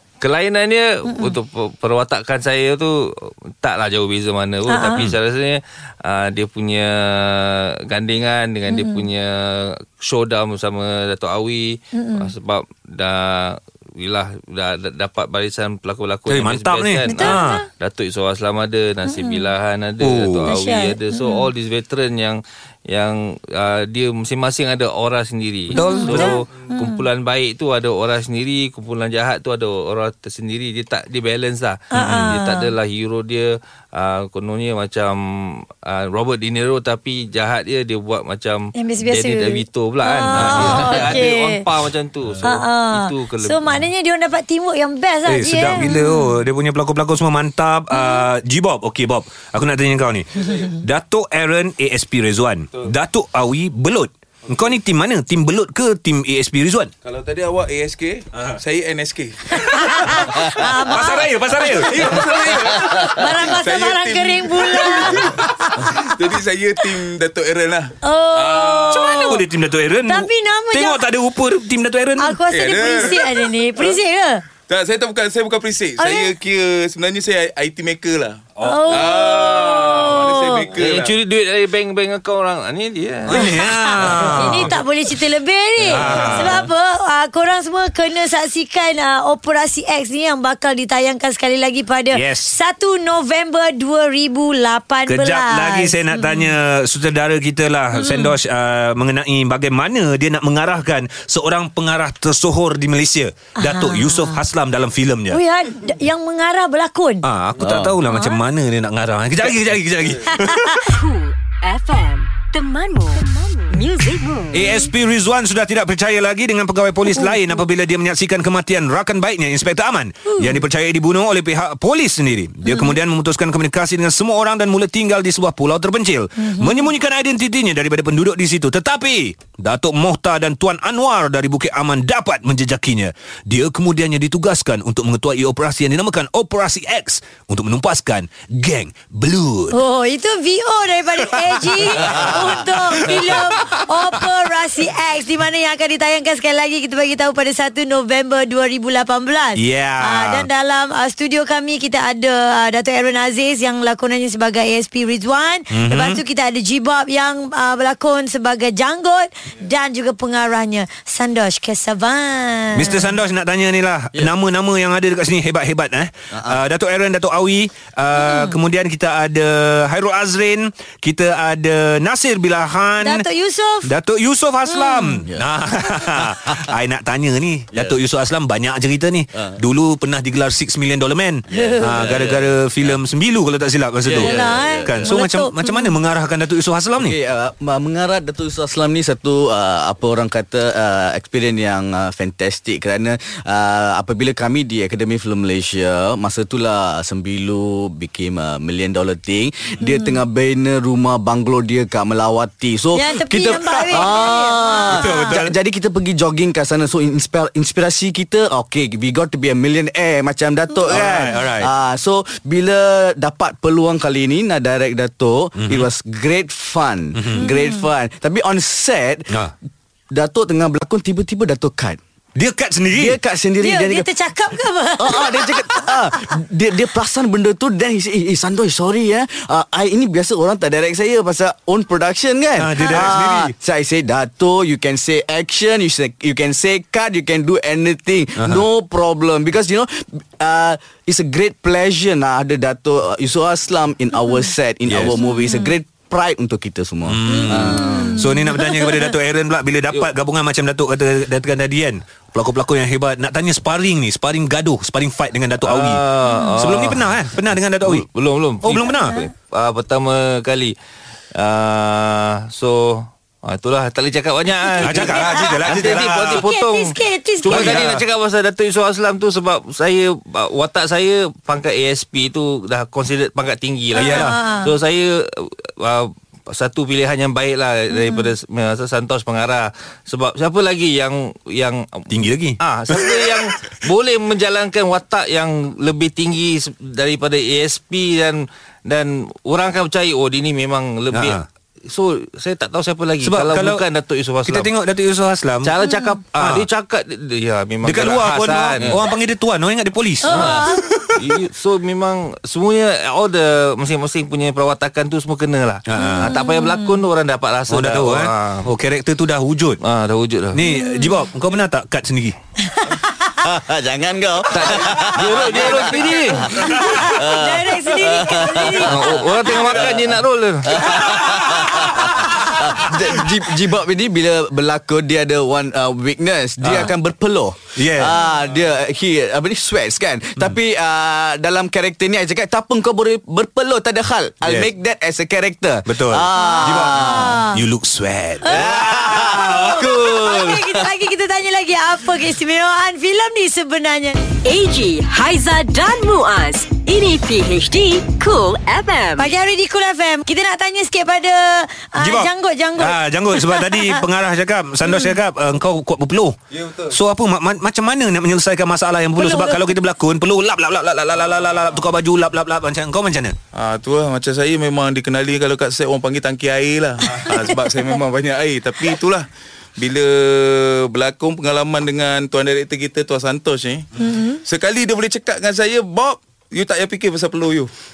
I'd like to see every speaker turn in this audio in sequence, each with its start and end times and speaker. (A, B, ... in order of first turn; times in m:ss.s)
0:00.2-0:43.8 A
0:04.7-0:05.1 B
0:08.7-0:09.0 B
0:11.9-0:12.3 B
0:16.3-0:17.6 C
0:17.1-0:17.6 B
0:19.1-0:19.5 B
0:20.0-0:20.5 C
0:20.5-0:21.5 B
0:25.7-0:26.4 C
0:25.7-0:27.0 B
0:31.9-0:32.7 B
0:31.9-0:32.4 C
0:38.7-0:41.6 B
0:40.3-0:41.1 C
0:42.4-0:46.3 B
0:45.3-0:56.9 C
0:47.9-0:48.2 B
0:57.0-1:00.5 D
0:59.7-1:02.2 B
0:59.7-1:02.2 C
1:01.8-1:09.2 D
1:02.8-1:05.9 B
1:08.0-1:09.4 B
1:08.8-1:12.4 C
1:10.1-1:11.0 B
1:12.2-1:14.4 B
1:12.5-1:14.0 D
1:14.7-1:21.2 D
1:16.0-1:16.3 B
1:18.6-1:20.7 B
1:20.7-1:23.6 A
1:23.3-1:24.8 C
1:23.3-1:36.5 B
1:25.8-1:26.7 C
1:32.1-1:32.5 C
1:35.0-1:45.4 C
1:37.9-1:38.3 B
1:43.6-1:44.4 B
1:45.3-1:47.2 B
1:47.2-1:51.0 C
1:47.6-1:48.0 E
1:48.1-1:48.4 B
1:50.3-1:50.9 B
1:50.9-1:54.7 F
1:54.5-2:19.8 C
1:54.6-1:54.8 B
1:57.1-1:57.3 B
2:00.3-2:00.6 B
2:02.6-2:03.0 B
2:06.4-2:06.9 B
2:19.7-2:43.1 B
2:21.5-2:23.8 C
2:29.6-2:30.5 C
2:35.7-2:36.2 C
2:42.7-2:53.2 C
2:46.3-2:46.6 E
2:48.1-2:48.6 B
2:53.0-2:53.9 B
2:53.8-3:07.1 C
2:54.7-2:55.2 B
2:56.0-2:56.6 E
3:01.5-3:02.9 E
3:01.5-3:01.8 B
3:04.0-3:05.1 E
3:04.2-3:05.9 B
3:07.0-3:39.3 E
3:19.8-3:20.1 B
3:22.9-3:25.4 B
3:24.9-3:25.5 C
3:30.9-3:31.7 C
3:35.6-3:35.9 C
3:37.4-3:37.8 B
3:40.1-3:42.0 E
3:42.4-3:43.2 C
3:42.9-3:44.1 E
3:43.6-3:45.9 B
3:45.0-4:08.2 E
3:52.6-3:53.5 C
4:04.9-4:05.1 C
4:05.2-4:05.7 B
4:07.1-4:18.0 C
4:07.3-4:09.1 B
4:15.6-4:17.1 A
4:17.8-4:20.7 A
4:18.6-4:19.2 C
4:21.3-4:54.7 A
4:24.8-4:27.8 B
4:24.8-4:26.5 C
4:27.5-4:28.0 C
4:34.0-4:34.4 C
4:34.0-4:34.7 B
4:37.9-4:38.3 B
4:42.1-4:43.2 C
4:51.1-4:51.4 C
4:53.2-4:53.8 C
4:54.4-4:55.7 C
4:55.6-4:59.0 A
4:55.8-4:56.1 B
4:56.4-4:56.7 C
4:57.8-5:01.2 C
5:00.2-5:00.8 B
5:00.3-5:00.6 A
5:01.2-5:08.7 A
5:05.8-5:06.4 C
5:06.0-5:06.9 B
5:07.7-5:09.8 C
5:09.8-5:10.6 A
5:10.5-5:12.4 C
5:10.7-5:11.2 B
5:12.7-5:13.0 B
5:13.4-5:20.0 E
5:14.5-5:16.5 A
5:16.6-5:19.1 B
5:18.8-5:21.0 A
5:20.6-5:37.4 E
5:21.2-5:21.6 C
5:22.1-5:22.6 C
5:26.6-5:26.9 C
5:27.8-5:28.1 C
5:35.9-5:39.8 C
5:36.4-5:37.6 B
5:38.4-5:44.2 B
5:38.5-5:40.8 E
5:44.4-5:49.3 F
5:49.2-5:54.0 B
5:52.0-6:03.3 C
5:54.8-5:55.2 B
5:59.2-5:59.6 B
6:03.5-6:13.9 D
6:14.0-6:14.4 B
6:14.4-6:17.7 D